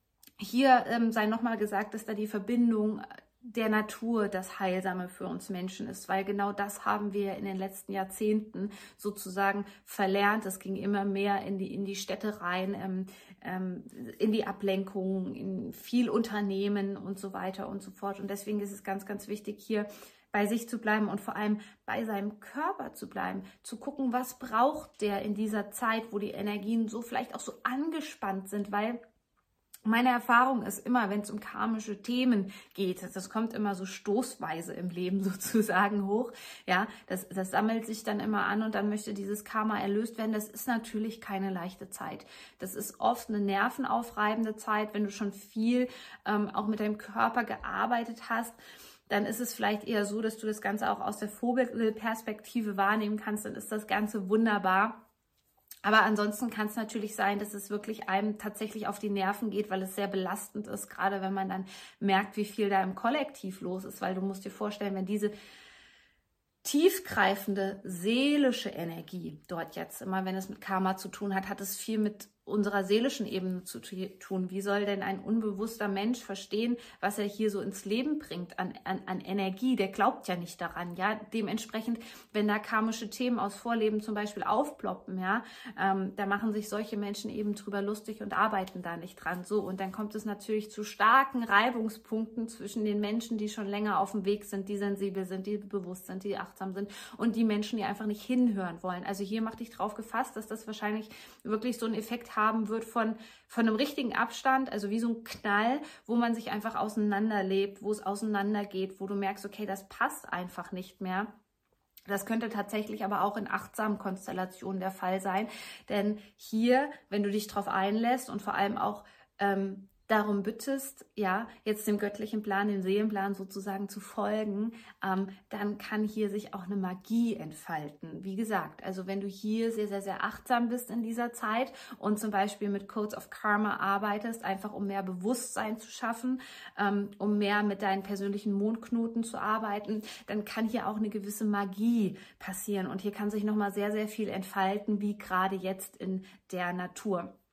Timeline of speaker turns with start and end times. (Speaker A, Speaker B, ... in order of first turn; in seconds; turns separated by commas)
Speaker A: 0.4-29.0, Speaker A: 29.9-48.6, Speaker A: 49.1-55.0, Speaker A: 55.8-65.3, Speaker A: 66.6-111.3, Speaker A: 112.1-147.3